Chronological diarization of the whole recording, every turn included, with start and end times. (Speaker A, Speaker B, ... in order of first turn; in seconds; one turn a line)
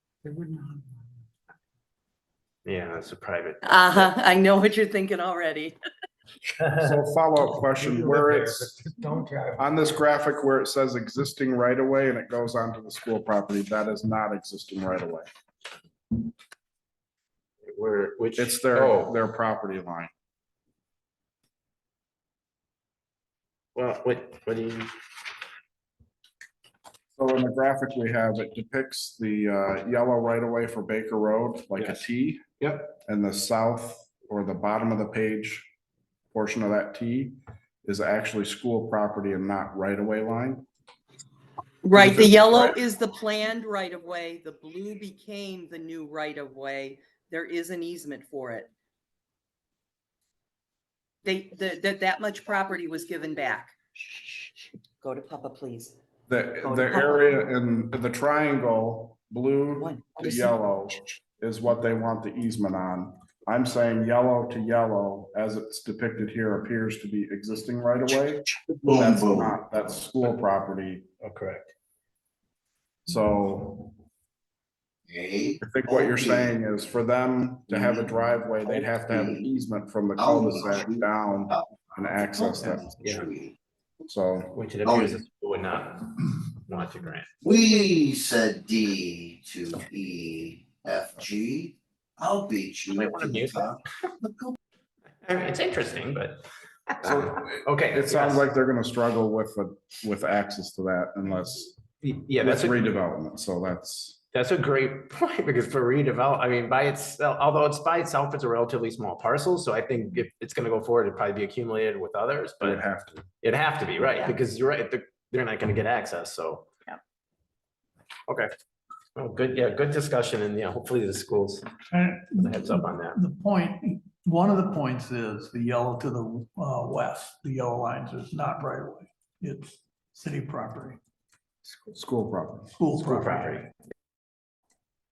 Speaker A: 0.2-0.9
Speaker B: 2.6-4.1
Speaker C: 3.6-5.8
Speaker B: 6.6-6.9
Speaker D: 6.8-8.9
Speaker A: 7.7-9.9
Speaker D: 9.6-15.3
Speaker B: 17.6-19.2
Speaker D: 18.4-20.1
Speaker B: 23.8-24.9
Speaker D: 27.1-32.4
Speaker B: 31.8-32.0
Speaker B: 32.6-32.9
Speaker D: 33.0-35.7
Speaker D: 36.3-40.7
Speaker C: 41.8-48.7
Speaker D: 42.0-42.8
Speaker C: 51.2-54.5
Speaker C: 55.0-56.0
Speaker D: 56.3-71.1
Speaker C: 56.6-57.4
Speaker C: 59.7-60.5
Speaker E: 68.7-69.6
Speaker B: 71.2-71.7
Speaker D: 73.1-74.0
Speaker E: 75.1-76.5
Speaker D: 75.6-83.2
Speaker E: 77.7-78.2
Speaker E: 78.7-79.4
Speaker E: 80.2-83.6
Speaker B: 82.6-83.3
Speaker D: 84.1-84.5
Speaker B: 84.5-87.3
Speaker E: 84.8-85.2
Speaker E: 87.4-94.5
Speaker B: 92.9-93.8
Speaker B: 95.2-98.5
Speaker D: 97.0-101.8
Speaker B: 102.0-103.0
Speaker D: 102.4-104.2
Speaker B: 104.3-112.8
Speaker D: 112.6-113.2
Speaker B: 113.4-116.7
Speaker B: 119.2-121.7
Speaker F: 121.9-131.0
Speaker B: 122.3-123.2
Speaker D: 131.8-132.8
Speaker F: 132.8-133.7
Speaker B: 133.0-133.4